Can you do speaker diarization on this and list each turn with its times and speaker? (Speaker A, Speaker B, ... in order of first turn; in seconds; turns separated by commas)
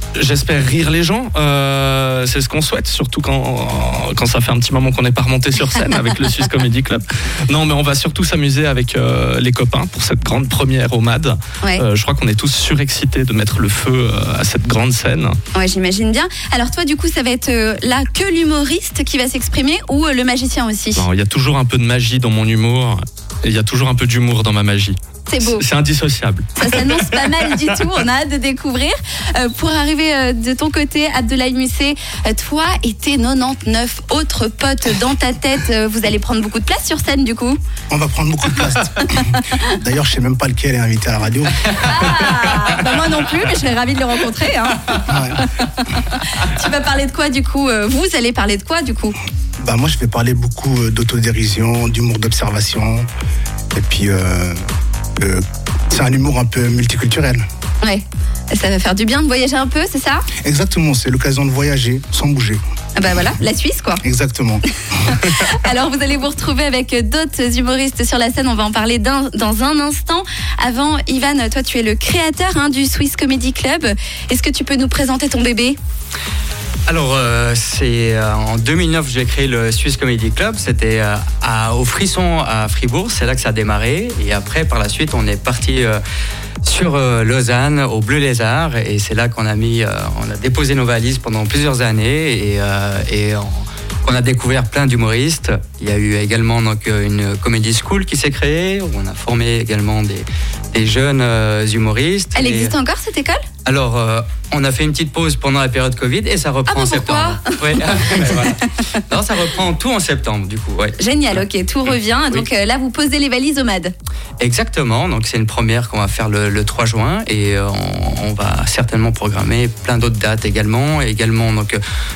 Speaker A: 0.1-15.4, Speaker B: 15.5-21.1, Speaker A: 21.0-27.8, Speaker B: 25.3-25.6, Speaker B: 26.6-37.6, Speaker C: 37.9-41.7, Speaker B: 41.7-49.1, Speaker C: 45.0-45.5, Speaker C: 49.6-53.1, Speaker C: 53.7-54.6, Speaker C: 55.2-57.4, Speaker B: 57.8-60.2, Speaker C: 60.4-62.6, Speaker B: 63.0-64.0, Speaker C: 64.0-65.3, Speaker B: 65.0-75.8, Speaker D: 76.9-86.0, Speaker D: 86.6-102.7, Speaker B: 102.3-103.4, Speaker D: 103.7-111.0, Speaker B: 106.7-108.5, Speaker B: 111.0-113.9, Speaker D: 114.4-121.8